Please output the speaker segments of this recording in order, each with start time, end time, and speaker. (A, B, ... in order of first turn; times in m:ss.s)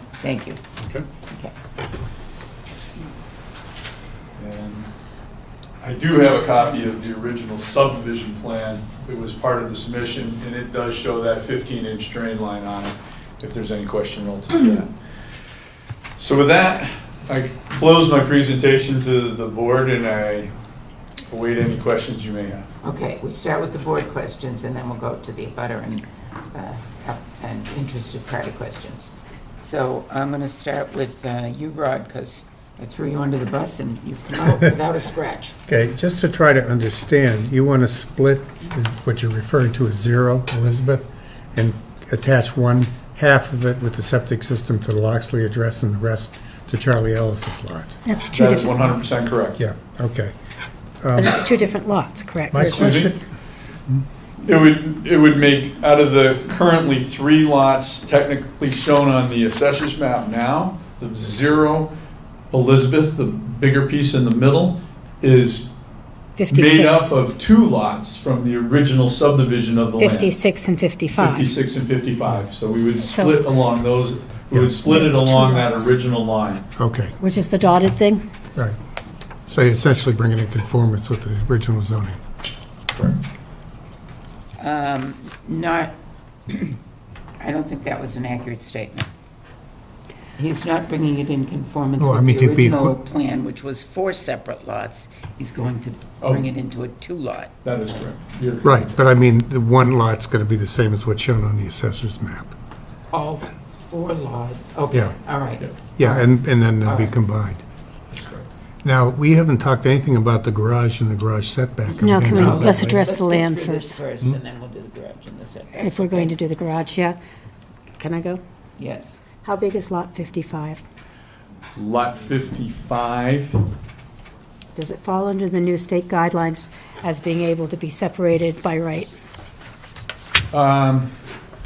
0:00.2-0:00.6 A
0:00.8-0:01.0 B
0:04.4-0:04.9 B
0:05.8-0:14.9 B
0:16.2-0:20.5 B
0:21.3-0:22.7 B
0:22.8-0:35.5 A
0:35.7-0:48.0 C
0:48.0-0:49.0 D
0:48.3-0:49.6 B
0:49.6-0:50.3 C
0:51.0-0:51.4 C
0:51.2-0:53.1 D
0:52.5-0:53.2 C
0:52.6-0:53.1 B
0:54.4-1:01.9 B
1:02.5-1:05.7 B
1:06.4-1:07.1 D
1:06.5-1:10.4 B
1:10.0-1:11.5 D
1:11.1-1:16.6 B
1:13.0-1:13.4 D
1:14.5-1:14.8 C
1:14.8-1:15.9 D
1:16.8-1:17.1 C
1:17.2-1:18.2 D
1:19.5-1:22.2 C
1:24.6-1:25.9 A
1:26.5-1:26.8 A
1:27.4-1:29.1 A
1:30.4-1:37.7 A
1:32.0-1:32.9 C
1:36.2-1:36.5 B
1:37.6-1:39.0 B
1:38.6-1:42.5 C
1:43.1-1:46.3 A
1:45.9-1:47.6 C
1:46.8-1:47.1 A
1:48.1-1:48.5 B
1:48.8-1:53.0 C
1:52.0-1:54.0 D
1:52.3-1:56.3 A
1:55.7-1:57.2 D
1:58.0-1:58.4 D
1:58.8-1:59.2 A
1:59.4-2:00.8 D
2:01.8-2:03.6 B
2:04.8-2:09.1 D
2:10.5-2:11.1 B